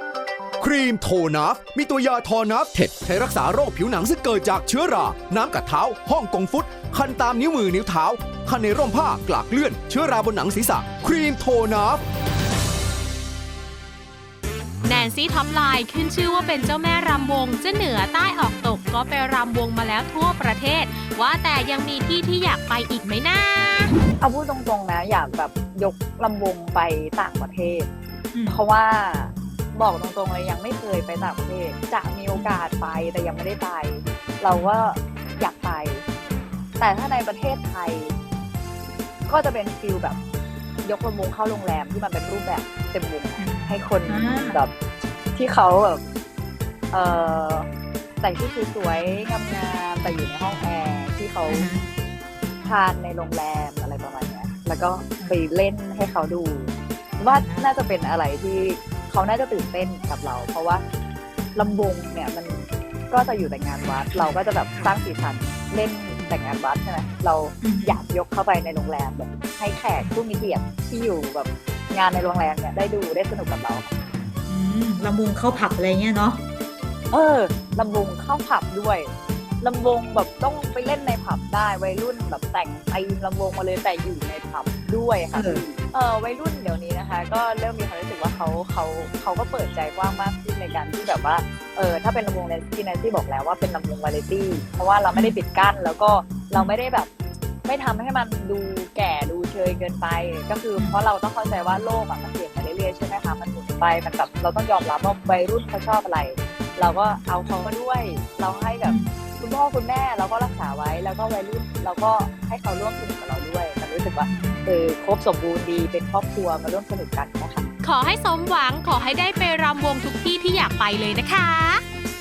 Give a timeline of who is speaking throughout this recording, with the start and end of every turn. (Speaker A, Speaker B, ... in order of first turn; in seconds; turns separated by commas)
Speaker A: 0.6-12.0, Speaker B: 14.8-23.9, Speaker C: 24.2-27.9, Speaker D: 28.3-28.6, Speaker C: 28.5-36.0, Speaker D: 32.3-32.6, Speaker D: 34.5-34.9, Speaker C: 36.8-38.1, Speaker C: 39.3-40.2, Speaker C: 40.8-44.7, Speaker D: 43.4-44.6, Speaker C: 45.4-46.0, Speaker C: 46.9-47.7, Speaker C: 48.2-51.7, Speaker D: 51.5-51.9, Speaker C: 52.6-60.8, Speaker D: 57.3-57.7, Speaker C: 61.5-73.9, Speaker D: 63.9-64.9, Speaker D: 67.6-68.0, Speaker D: 74.5-76.4, Speaker C: 77.1-97.1, Speaker D: 85.3-85.6, Speaker D: 95.1-95.4, Speaker C: 97.7-117.7, Speaker D: 108.8-109.1, Speaker D: 114.2-114.6, Speaker B: 117.8-121.8